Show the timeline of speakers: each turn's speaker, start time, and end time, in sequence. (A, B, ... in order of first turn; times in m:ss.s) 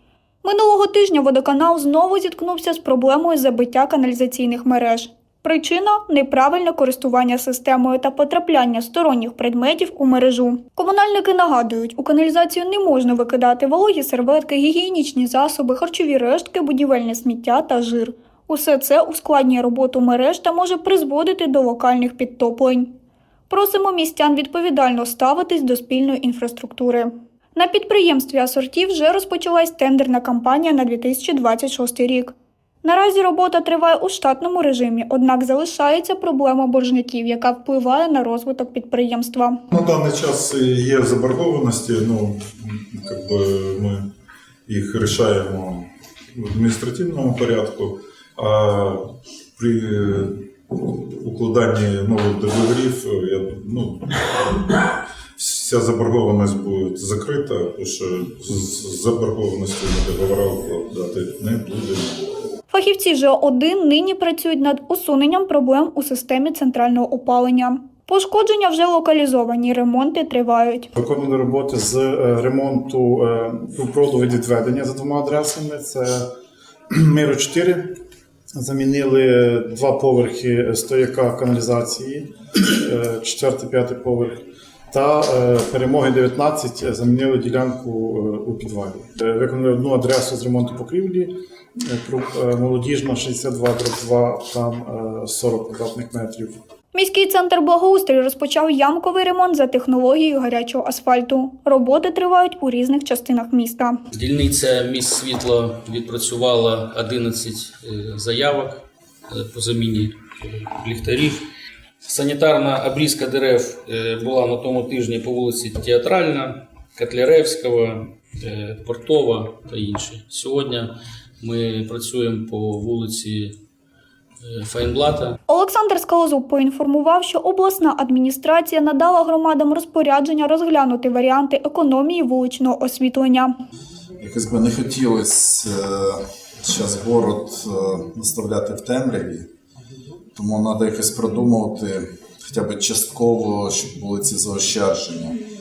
0:00.4-0:22.9 A
0:23.5-0:39.6 A
0:39.7-0:44.0 B
0:44.7-0:49.0 B
0:49.6-0:54.8 B
0:55.4-1:02.3 B
1:02.7-1:10.9 A
1:11.0-1:16.3 C
1:16.9-1:17.9 C
1:18.6-1:36.6 C
1:36.9-1:44.0 A
1:44.1-1:51.4 D
1:52.0-2:03.6 D
2:04.4-2:05.4 D
2:05.5-2:13.5 A
2:14.2-2:19.4 E
2:20.4-2:25.4 E